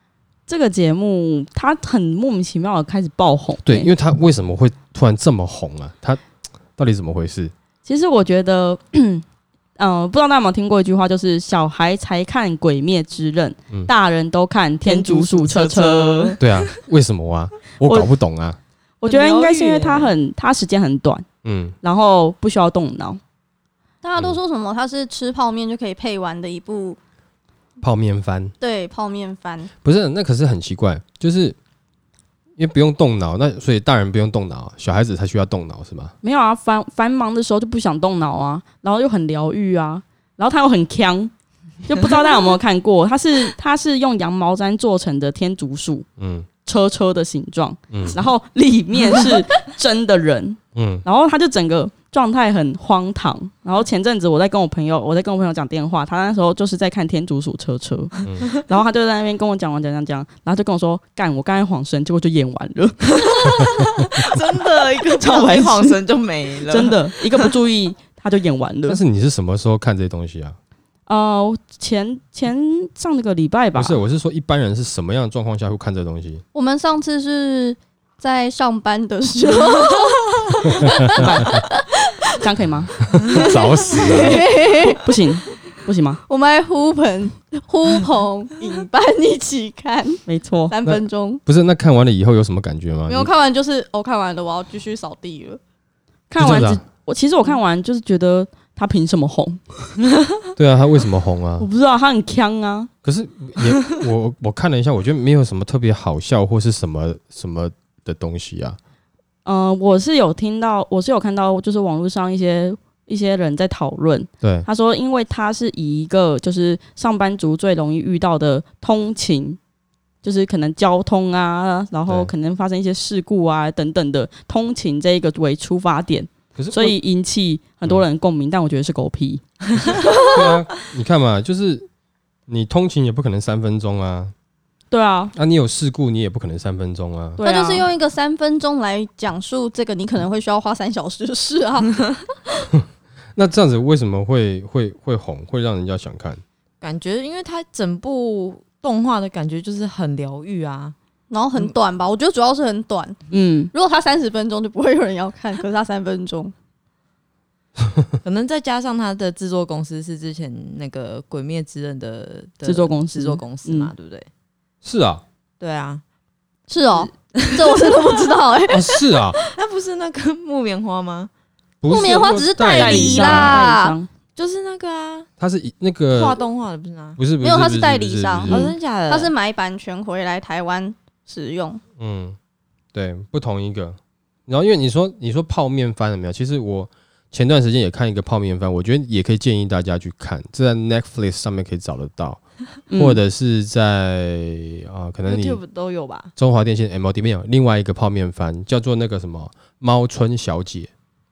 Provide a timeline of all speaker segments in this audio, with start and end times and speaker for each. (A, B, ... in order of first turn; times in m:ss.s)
0:00.5-0:03.9 A
0:03.6-0:06.2 B
0:06.8-0:07.5 B
0:07.8-0:09.2 A
0:09.8-0:16.4 A
0:14.8-0:16.6 C
0:16.4-0:18.6 B
0:19.0-0:21.2 A
0:19.0-0:20.1 C
0:21.4-0:21.7 B
0:21.8-0:23.2 A
0:24.0-0:27.0 D
0:27.8-0:28.5 B
0:28.6-0:29.7 D
0:29.8-0:31.6 B
0:32.6-0:36.1 B
0:36.2-0:41.3 A
0:41.8-0:46.0 A
0:46.2-0:46.5 B
0:46.6-1:04.2 A
0:47.9-0:48.2 B
0:50.7-0:51.0 B
1:03.3-1:07.5 C
1:05.1-1:06.0 A
1:06.6-1:09.0 A
1:08.9-1:10.6 B
1:11.1-1:14.0 A
1:13.8-1:16.4 B
1:16.5-1:22.4 D
1:21.1-1:21.6 B
1:21.2-1:21.7 A
1:22.4-1:23.0 A
1:23.1-1:24.5 B
1:23.4-1:25.1 D
1:24.3-1:26.2 A
1:26.3-1:31.4 D
1:30.3-1:30.8 A
1:30.8-1:33.3 B
1:33.1-1:35.6 D
1:36.3-1:39.9 A
1:36.4-1:36.8 B
1:40.6-1:41.7 B
1:41.6-1:42.9 A
1:43.0-1:48.8 B
1:49.4-1:59.6 A
1:54.4-1:54.7 B
2:00.2-2:10.3 A
2:06.5-2:07.0 B
2:10.1-2:11.8 B
2:12.5-2:14.3 B
2:14.9-2:15.3 A
2:15.3-2:17.4 B
2:17.4-2:17.8 A
2:17.4-2:22.0 D
2:23.4-2:26.4 B
2:26.8-2:30.9 C
2:31.3-2:33.2 D
2:33.3-2:33.7 A
2:33.7-2:36.5 D
2:38.2-2:44.3 C
2:42.6-2:43.9 A
2:44.8-2:45.2 B
2:45.6-2:46.0 C
2:46.7-2:49.4 D
2:46.9-2:48.1 C
2:48.7-2:49.4 B
2:49.4-2:51.3 C
2:51.8-2:53.7 B
2:51.9-2:54.0 D
2:52.7-2:54.1 A
2:54.4-2:55.3 C
2:55.4-2:56.4 B
2:56.1-2:57.2 C
2:57.2-2:58.8 B
2:57.4-2:58.6 D
2:58.5-2:59.3 C
2:59.1-3:01.8 D
3:02.0-3:02.4 B
3:02.9-3:12.4 B
3:12.9-3:13.2 A
3:12.9-3:15.6 B
3:15.2-3:16.3 C
3:16.4-3:20.9 B